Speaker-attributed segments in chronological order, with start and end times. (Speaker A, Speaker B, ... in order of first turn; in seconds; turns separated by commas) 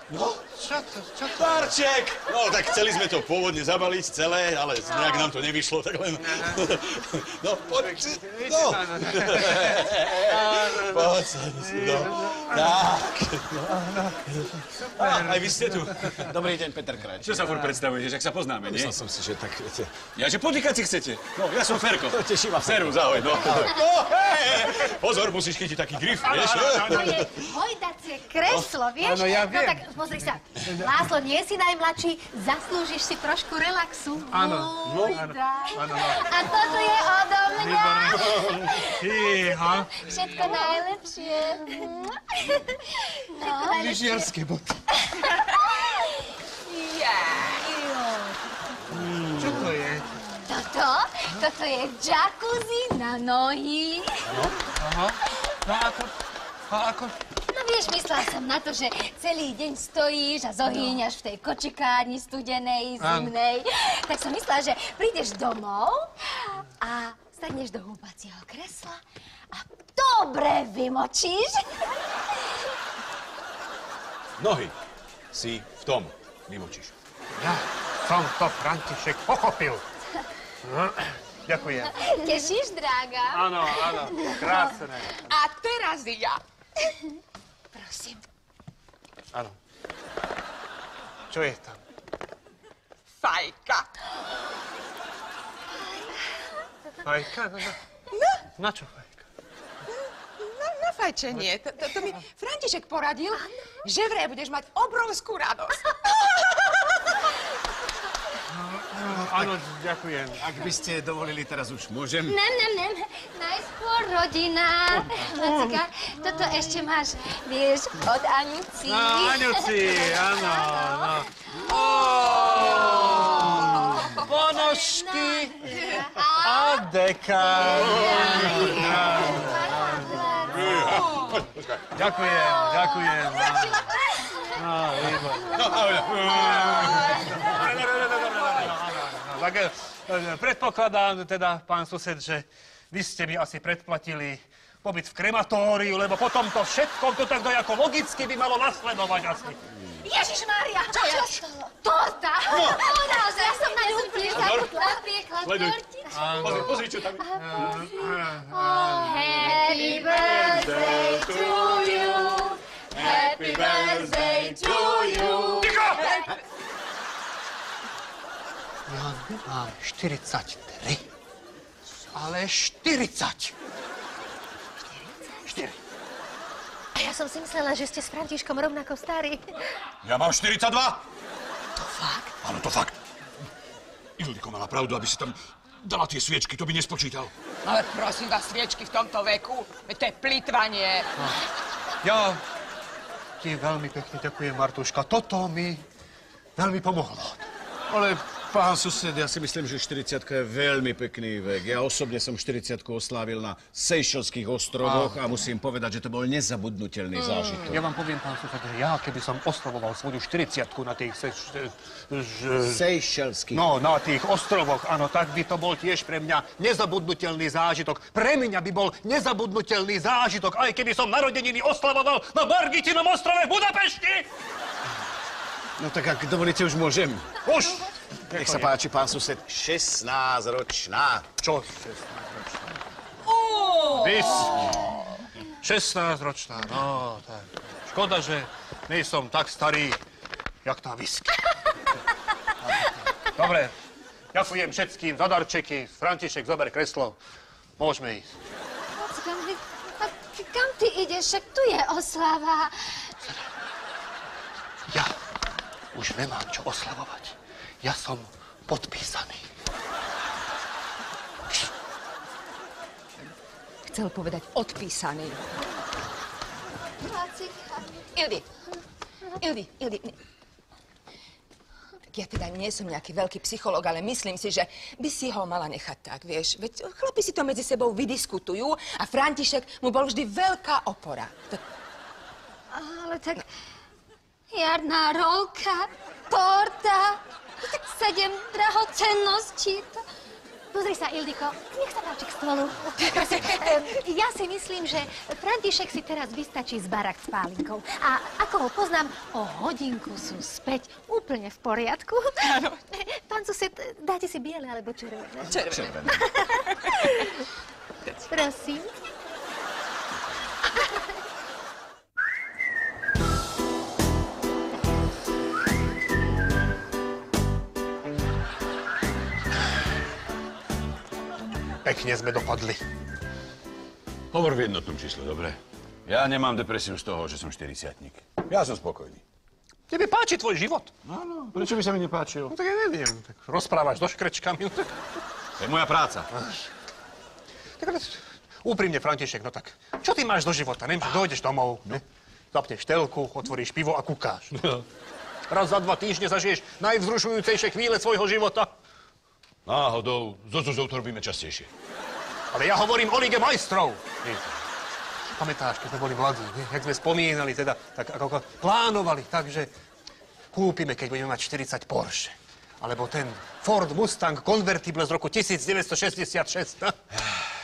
Speaker A: 0.1-0.5, Speaker B: 0.5-1.7, Speaker A: 1.3-16.4, Speaker B: 6.2-6.7, Speaker B: 7.8-11.1, Speaker B: 11.6-12.7, Speaker B: 13.7-15.8, Speaker C: 16.1-17.8, Speaker A: 17.2-18.9, Speaker C: 18.6-20.0, Speaker A: 20.1-27.3, Speaker C: 22.1-23.8, Speaker B: 26.2-27.3, Speaker D: 26.7-35.2, Speaker B: 29.0-29.9, Speaker B: 30.6-30.9, Speaker B: 34.3-36.9, Speaker A: 34.8-35.3, Speaker E: 35.0-44.3, Speaker B: 37.5-40.6, Speaker B: 43.5-44.8, Speaker E: 45.5-46.2, Speaker F: 46.6-47.7, Speaker E: 47.7-48.3, Speaker A: 48.9-49.7, Speaker B: 49.3-50.1, Speaker E: 50.4-54.3, Speaker A: 54.2-54.6, Speaker B: 54.8-56.1, Speaker B: 56.7-57.1, Speaker E: 57.5-69.0, Speaker B: 63.0-63.3, Speaker E: 69.5-72.0, Speaker A: 74.4-74.8, Speaker A: 75.3-76.9, Speaker B: 77.3-79.8, Speaker B: 80.6-82.2, Speaker E: 82.0-84.5, Speaker B: 83.3-85.3, Speaker F: 85.2-86.4, Speaker F: 87.8-88.2, Speaker B: 91.3-91.8, Speaker F: 93.2-93.9, Speaker B: 97.0-97.8, Speaker F: 98.1-98.4, Speaker B: 98.6-99.2, Speaker F: 100.4-106.8, Speaker B: 108.5-110.5, Speaker C: 110.4-112.4, Speaker E: 112.3-126.9, Speaker B: 115.0-115.8, Speaker B: 118.8-130.8, Speaker E: 127.5-130.9, Speaker A: 130.4-132.0, Speaker B: 131.9-133.9, Speaker E: 132.1-134.4, Speaker B: 134.5-135.6, Speaker A: 135.0-137.5, Speaker B: 136.3-149.6, Speaker E: 150.1-166.3, Speaker D: 150.2-151.3, Speaker D: 152.4-153.0, Speaker D: 153.6-154.5, Speaker A: 154.3-154.8, Speaker A: 155.4-157.8, Speaker B: 156.1-156.8, Speaker B: 157.3-160.0, Speaker D: 159.0-159.6, Speaker A: 160.0-162.1, Speaker A: 162.9-165.8, Speaker B: 165.6-166.2, Speaker B: 168.9-171.0, Speaker B: 172.1-173.5, Speaker B: 175.4-175.8, Speaker D: 176.9-179.4, Speaker A: 180.0-181.0, Speaker A: 182.4-183.0, Speaker A: 184.2-187.3, Speaker F: 187.6-191.1, Speaker B: 192.0-192.4, Speaker B: 193.4-195.8, Speaker B: 196.6-197.4, Speaker C: 197.9-207.8, Speaker B: 204.8-205.2, Speaker F: 207.1-207.5, Speaker B: 207.6-212.8, Speaker C: 212.6-213.7, Speaker B: 213.5-224.3, Speaker C: 225.8-227.4, Speaker B: 227.4-228.7, Speaker C: 228.3-231.2, Speaker B: 231.4-232.8, Speaker B: 233.3-235.0, Speaker B: 235.6-240.0, Speaker B: 240.6-241.4, Speaker B: 242.6-243.7, Speaker B: 244.3-247.2, Speaker B: 247.8-248.3, Speaker E: 249.0-253.1, Speaker B: 255.9-259.4, Speaker F: 263.9-265.9, Speaker E: 267.0-268.1, Speaker F: 268.1-268.5, Speaker F: 269.4-270.2, Speaker F: 272.1-281.6, Speaker E: 282.7-283.5, Speaker E: 284.5-290.0, Speaker D: 290.7-307.2, Speaker F: 293.2-293.6, Speaker F: 302.4-302.8, Speaker F: 305.5-306.0, Speaker C: 305.6-306.2, Speaker D: 308.3-308.9, Speaker B: 321.8-322.8, Speaker A: 324.3-329.2, Speaker B: 329.9-330.9, Speaker A: 331.0-332.5, Speaker B: 332.5-334.9, Speaker A: 335.6-336.3, Speaker B: 336.3-336.6, Speaker B: 337.8-344.5, Speaker B: 345.5-348.7, Speaker A: 349.6-351.7, Speaker B: 352.5-354.4, Speaker B: 355.3-359.7, Speaker B: 360.5-367.0